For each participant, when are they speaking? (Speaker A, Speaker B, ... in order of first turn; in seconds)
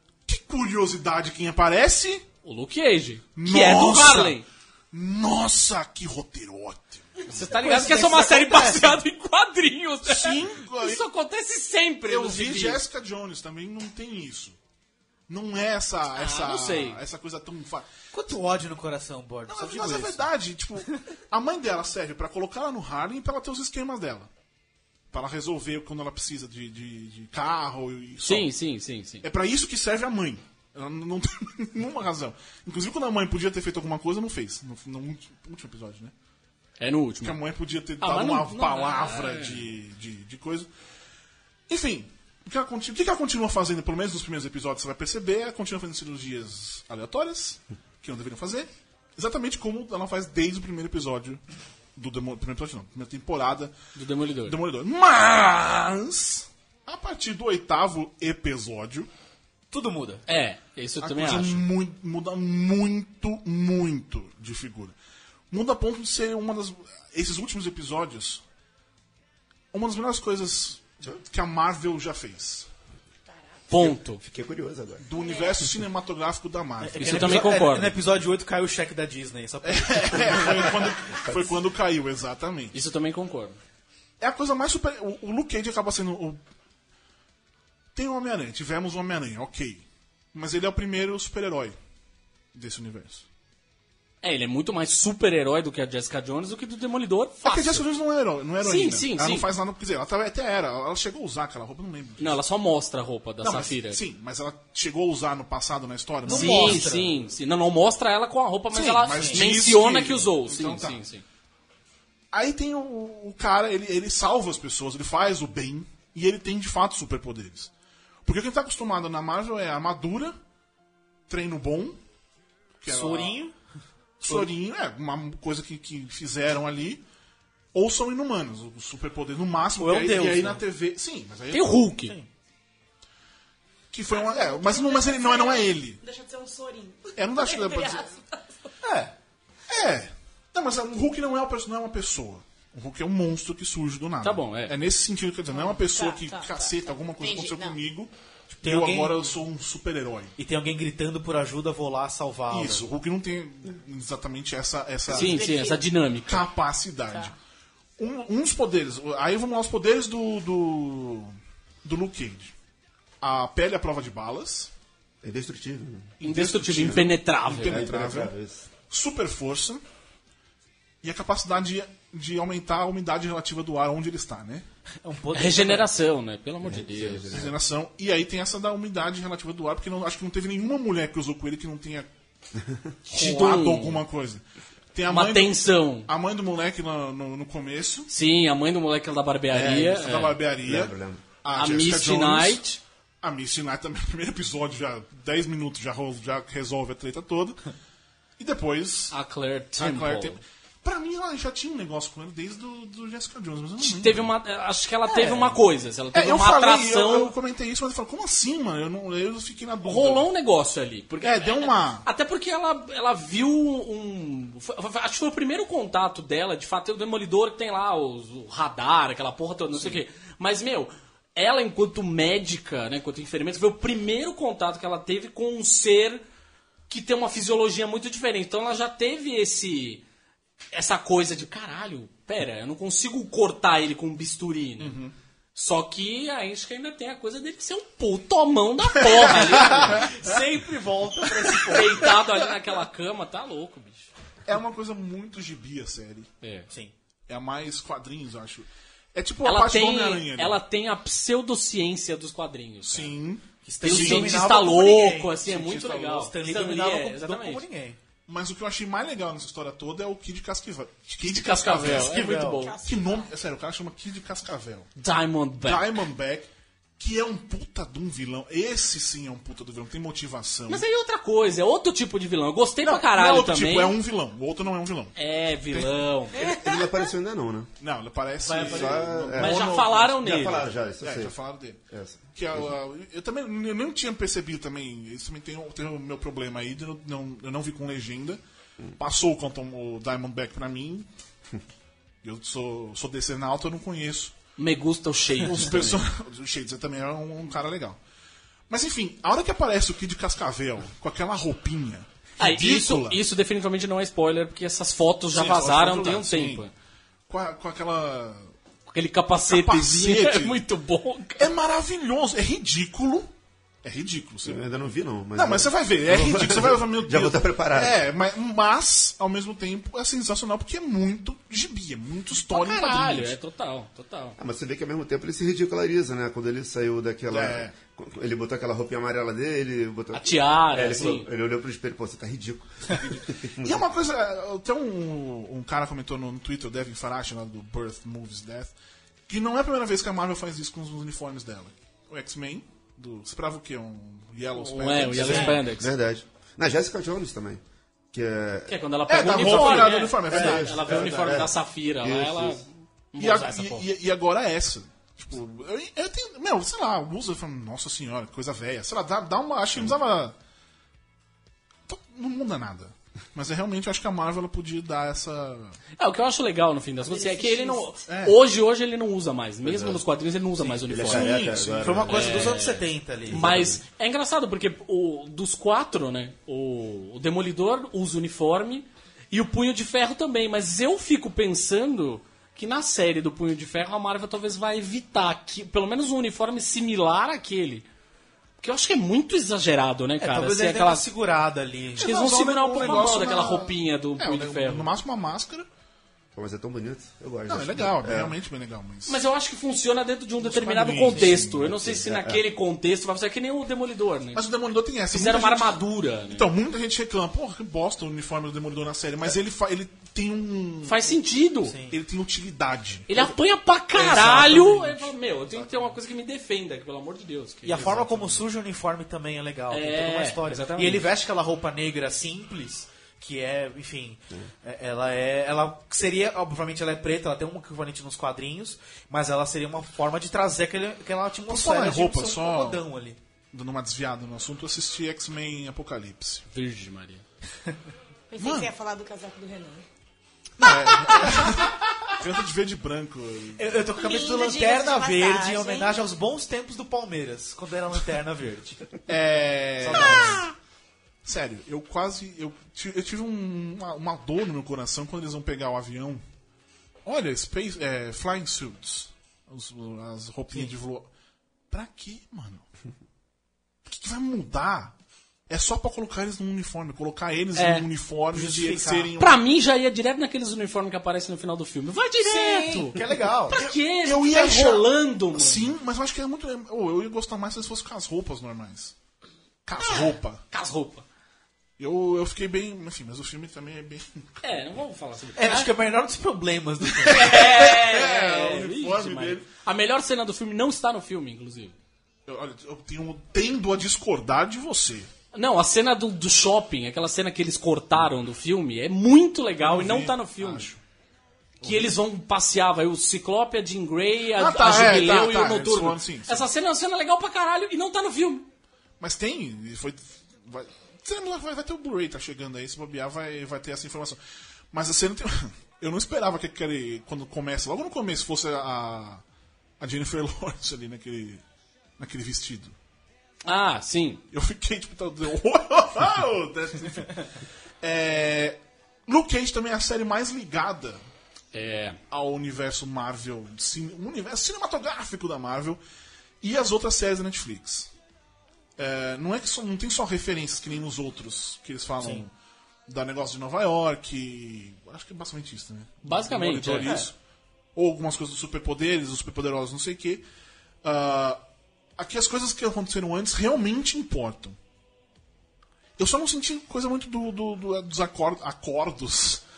Speaker A: 0.3-2.2, 3.4-7.2, 10.0-11.0, 12.1-14.6, 15.3-17.9, 19.5-24.3, 25.1-28.5, 29.2-36.1, 37.2-40.7, 41.7-51.4, 52.0-53.7, 54.4-59.1, 61.0-64.9, 65.5-68.4, 69.7-72.7, 75.0-77.5, 79.6-82.7, 84.2-86.4, 87.9-91.8, 92.5-93.2, 97.4-102.4, 103.4-106.9, 108.7-111.0, 112.3-117.7, 118.2-120.3, 121.3-122.0, 122.8-123.4, 124.2-127.0, 127.7-131.9, 133.9-136.0, 137.2-138.1, 139.7-150.3, 152.5-155.5, 156.3-157.3, 158.0-162.5, 163.2-164.7, 166.2-168.3, 168.9-169.8, 171.0-174.7, 177.3-182.1, 183.1-184.4, 184.9-188.1, 189.5-192.6, 193.2-197.6, 198.4-199.1, 199.8-204.3, 205.1-205.5, 206.1-210.3, 211.2-212.1, 234.8-235.1, 239.0-240.4, 241.4-241.7, 244.4-246.3, 247.3-250.6, 252.8-254.5, 255.5-256.0, 258.3-264.9, 265.6-270.8, 272.8-275.1, 277.8-281.8, 282.3-288.4, 289.0-291.1, 292.2-294.3, 295.4-298.0, 298.7-303.2, 305.3-306.6, 307.3-308.5, 309.4-310.6, 311.4-313.3, 313.8-314.8, 315.3-323.4, 327.3-327.7, 333.0-338.7, 339.3-345.6, 349.1-351.5, 353.2-360.3, 361.9-365.8, 368.1-368.4, 392.0-395.7, 397.5-399.2, 400.4-401.7, 404.3-411.1, 411.9-413.2, 414.0-415.9, 417.8-418.3, 431.5-432.8, 433.5-436.4, 438.4-438.7, 440.6-443.8, 449.1-450.4, 451.2-456.2, 457.0-461.1, 461.7-462.6, 463.9-464.9, 465.5-469.4, 473.5-478.9, 479.6-480.4, 481.8-484.4, 487.0-489.4, 492.3-495.1, 499.6-500.8, 501.6-501.9, 504.3-506.4, 509.0-514.2, 514.7-519.2, 519.8-521.4, 522.0-522.7, 524.3-531.0, 532.1-535.8, 536.4-537.9, 538.8-542.3, 542.9-547.1, 547.7-550.2, 550.8-551.4, 552.0-554.6, 556.0-559.4
Speaker B: 2.4-4.5, 7.3-12.8, 16.1-17.0, 28.2-29.2, 36.8-37.4, 38.0-39.6, 53.9-54.6, 60.2-61.7, 73.7-74.2, 77.0-78.0, 82.7-83.6, 94.2-97.8, 98.6-99.5, 102.2-104.0, 106.3-111.2, 131.5-132.2, 144.2-144.7, 155.1-156.4, 166.2-167.9, 175.3-177.4, 183.1-184.0, 185.1-186.1, 188.1-190.4, 191.5-192.8, 199.1-200.4, 203.8-207.3, 209.8-226.2, 226.9-230.0, 230.7-235.0, 235.5-240.1, 241.7-244.1, 246.4-246.7, 249.4-253.1, 253.8-257.6, 261.2-262.8, 265.0-265.9, 270.7-274.0, 275.1-276.5, 279.3-280.7, 294.6-296.0, 302.4-306.7, 308.9-311.5, 322.5-324.4, 330.1-331.3, 344.6-345.9, 348.7-353.8, 366.0-387.9, 388.6-391.1, 392.0-394.9, 399.1-404.4, 405.1-406.5, 410.9-411.8, 413.1-418.3, 419.7-421.0, 436.5-437.2, 467.5-467.9, 469.2-475.7, 480.5-481.0, 484.4-485.7, 487.0-491.8, 495.3-500.7, 501.6-508.5, 523.4-524.2, 531.5-532.0, 546.0-547.0
Speaker C: 7.4-9.0, 18.1-20.2, 59.7-60.2, 76.8-80.9, 106.2-107.2, 109.1-109.5, 122.8-123.5, 124.2-124.5, 129.8-130.6, 132.0-132.3, 138.8-139.1, 148.6-149.3, 150.4-152.9, 175.0-175.9, 239.5-242.1, 253.6-258.0, 261.7-262.7, 278.4-279.1, 370.7-373.6, 390.2-392.2, 411.6-412.0, 414.0-414.7, 417.6-433.2, 440.6-442.1, 443.6-448.9, 449.8-450.5, 468.3-469.1, 472.2-473.6, 485.4-487.4, 542.0-542.2
Speaker D: 74.1-75.0, 165.2-166.1, 166.8-168.7, 176.6-177.5, 190.6-191.2, 276.4-277.7, 278.6-281.3, 281.9-282.7, 314.4-318.0, 324.4-333.8, 345.1-352.6, 369.6-370.0, 370.9-372.5, 373.3-373.8, 396.3-398.4, 401.6-402.4
Speaker E: 75.1-75.6, 134.1-138.7, 145.5-147.8, 155.1-155.8, 262.5-263.3, 367.1-367.9, 438.3-439.8, 443.9-446.0